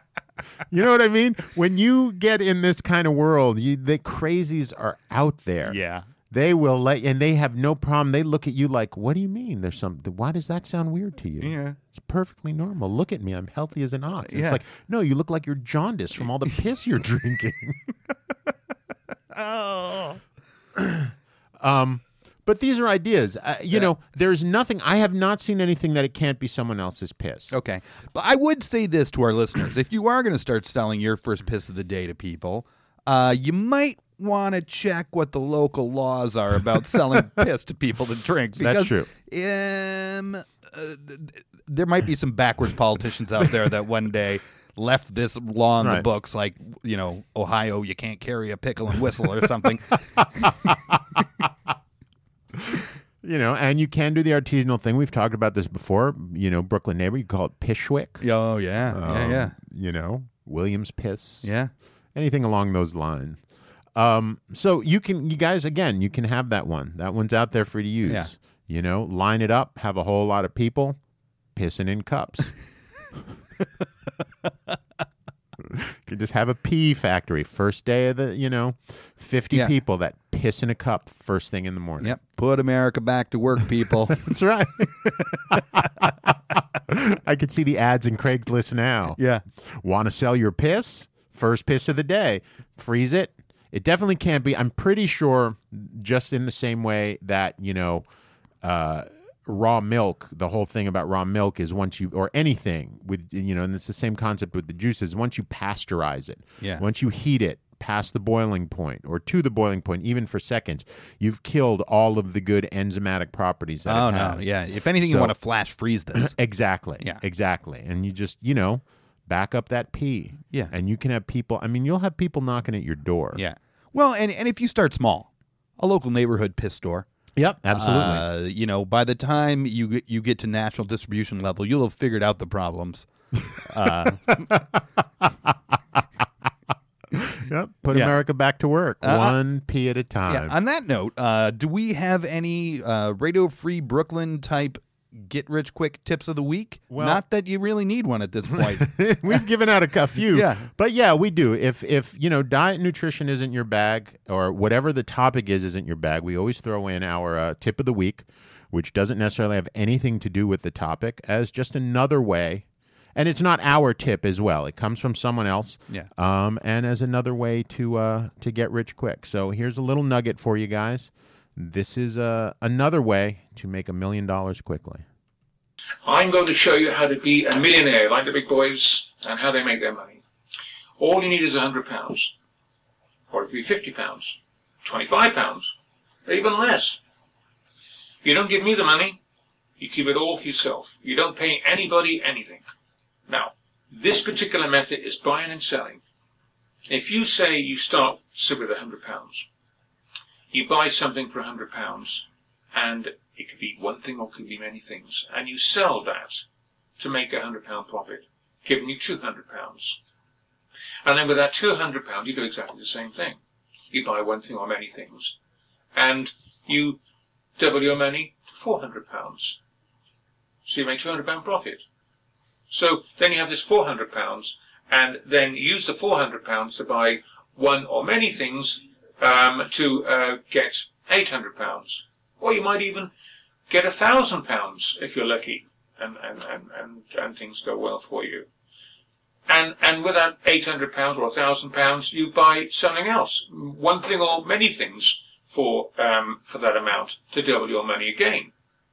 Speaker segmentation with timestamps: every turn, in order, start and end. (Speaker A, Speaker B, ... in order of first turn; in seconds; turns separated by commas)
Speaker A: 0.7-5.8, Speaker B: 5.7-6.1, Speaker A: 6.3-17.9, Speaker B: 11.4-11.8, Speaker B: 14.3-14.6, Speaker B: 19.3-20.2, Speaker A: 20.8-27.5, Speaker B: 27.5-50.7, Speaker A: 38.6-39.1, Speaker A: 45.8-46.1, Speaker A: 50.6-51.0, Speaker A: 52.6-58.2, Speaker B: 58.2-59.6, Speaker A: 58.9-61.5, Speaker B: 61.4-61.7, Speaker A: 62.1-63.4, Speaker A: 64.0-71.0, Speaker B: 68.1-68.3, Speaker A: 71.5-72.5, Speaker A: 75.6-82.2, Speaker B: 82.0-84.2, Speaker A: 84.1-98.1, Speaker B: 85.2-85.6, Speaker B: 89.2-89.4, Speaker A: 98.6-115.4, Speaker B: 113.8-116.3, Speaker A: 116.2-123.4, Speaker B: 123.3-127.1, Speaker A: 127.4-128.3, Speaker B: 127.7-134.4, Speaker A: 137.2-140.6, Speaker B: 137.9-138.2, Speaker B: 139.0-139.4, Speaker B: 140.3-149.0, Speaker A: 146.9-147.2, Speaker A: 148.5-175.1, Speaker B: 150.3-150.7, Speaker C: 176.1-180.2, Speaker C: 181.0-182.3, Speaker C: 183.3-185.7, Speaker C: 186.2-187.0, Speaker C: 188.2-189.2, Speaker C: 189.8-192.6, Speaker C: 193.3-196.0, Speaker C: 196.9-199.5, Speaker C: 200.5-206.4, Speaker C: 207.0-210.0, Speaker C: 211.1-213.4, Speaker C: 213.9-215.4, Speaker C: 215.9-217.0, Speaker C: 217.6-219.6, Speaker C: 220.7-221.8, Speaker C: 222.7-233.1, Speaker C: 233.7-238.5, Speaker C: 239.5-248.5